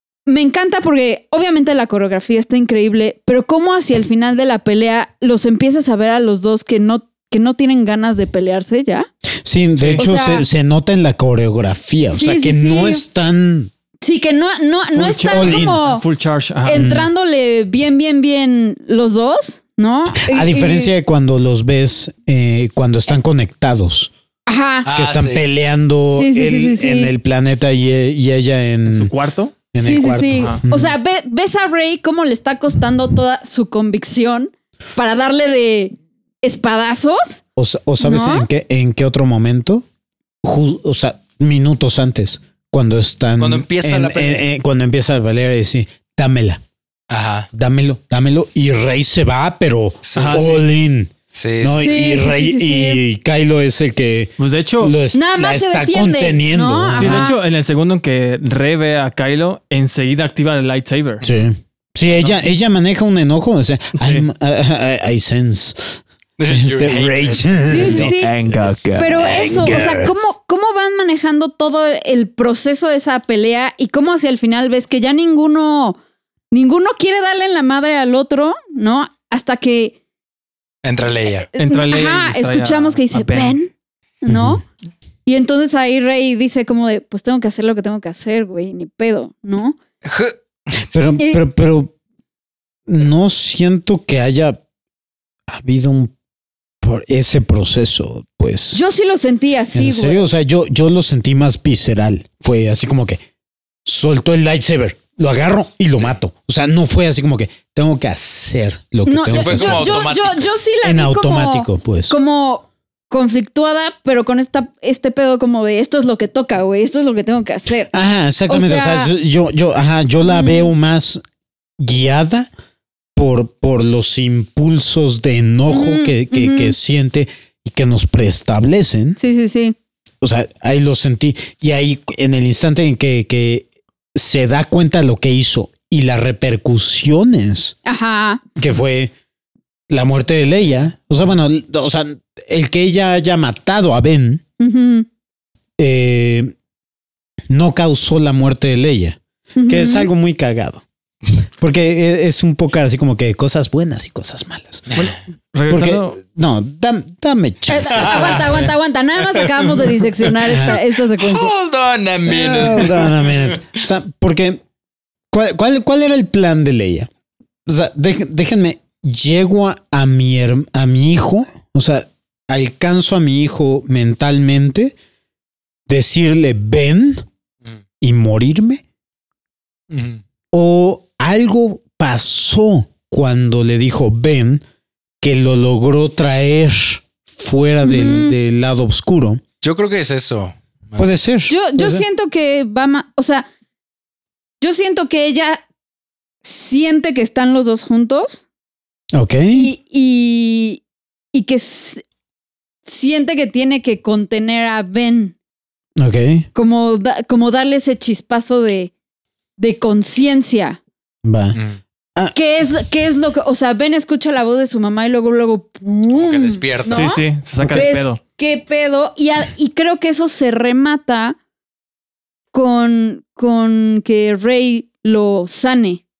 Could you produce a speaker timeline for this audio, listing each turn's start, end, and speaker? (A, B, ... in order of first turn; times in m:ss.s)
0:00.2-0:09.1 A
0:09.4-0:13.7 B
0:09.8-0:10.4 C
0:10.0-0:10.4 A
0:12.1-0:13.0 A
0:14.0-0:16.0 A
0:14.9-0:17.1 C
0:15.3-0:15.8 B
0:16.6-0:20.9 A
0:16.7-0:17.0 B
0:20.1-0:24.1 B
0:24.5-0:24.9 A
0:24.8-0:25.4 D
0:24.9-0:29.1 B
0:26.1-0:27.1 A
0:28.9-0:29.5 C
0:29.7-0:30.9 B
0:29.8-0:37.4 A
0:37.6-0:39.8 B
0:38.0-0:38.5 A
0:40.4-0:46.6 B
0:43.4-0:44.4 D
0:47.1-0:47.5 D
0:47.5-0:57.3 B
0:50.0-0:50.6 D
0:50.2-0:50.6 C
0:51.3-0:52.0 D
0:51.8-0:53.0 A
0:54.4-0:55.0 C
0:55.1-0:57.4 A
0:56.9-1:01.2 C
1:01.2-1:10.1 B
1:04.0-1:04.3 C
1:06.4-1:07.8 D
1:07.7-1:08.4 A
1:07.8-1:09.8 C
1:09.0-1:16.0 A
1:16.5-1:20.0 A
1:20.8-1:21.5 D
1:21.5-1:23.7 A
1:21.6-1:23.6 C
1:24.2-1:24.6 A
1:24.3-1:24.6 B
1:25.2-1:29.8 A
1:30.0-1:30.8 D
1:30.9-1:31.9 B
1:32.9-1:34.6 B
1:35.5-1:36.1 B
1:36.8-1:38.8 B
1:38.7-1:40.2 A
1:39.7-1:43.2 B
1:43.8-1:50.1 B
1:49.0-1:57.9 A
1:49.3-1:50.5 D
1:50.8-1:52.1 B
1:57.9-2:01.2 B
1:58.5-1:59.1 A
2:00.2-2:00.7 A
2:01.8-2:02.5 B
2:03.2-2:09.2 B
2:05.7-2:06.8 A
2:09.2-2:09.8 A
2:10.2-2:17.7 B
2:17.8-2:18.4 A
2:18.6-2:19.1 B
2:19.9-2:24.4 B
2:24.6-2:25.1 A
2:25.8-2:26.5 B
2:27.5-2:30.8 B
2:29.6-2:30.1 A
2:31.6-2:35.1 B
2:34.9-2:36.2 C
2:35.7-2:38.6 B
2:37.7-2:41.5 A
2:37.9-2:38.7 D
2:39.3-2:39.8 D
2:40.5-2:40.8 B
2:41.2-2:43.5 D
2:42.3-2:44.6 B
2:45.3-2:47.1 B
2:47.6-2:54.9 B
2:55.9-2:57.2 B
2:58.0-2:58.8 B
2:59.9-3:00.2 D
3:00.5-3:04.6 B
3:05.2-3:09.4 B
3:07.8-3:08.3 A
3:09.6-3:11.1 D
3:11.0-3:12.0 B
3:11.5-3:13.4 A
3:14.6-3:15.6 A
3:16.4-3:18.4 A
3:19.1-3:19.7 B
3:19.5-3:20.8 A
3:21.3-3:22.0 A
3:22.8-3:25.3 A
3:26.0-3:26.4 B
3:26.5-3:28.9 A
3:29.6-3:30.8 A
3:31.2-3:31.6 B
3:31.5-3:31.8 D
3:32.3-3:41.4 A
3:36.1-3:37.1 D
3:36.9-3:38.2 C
3:37.6-3:37.8 B
3:42.5-3:46.0 A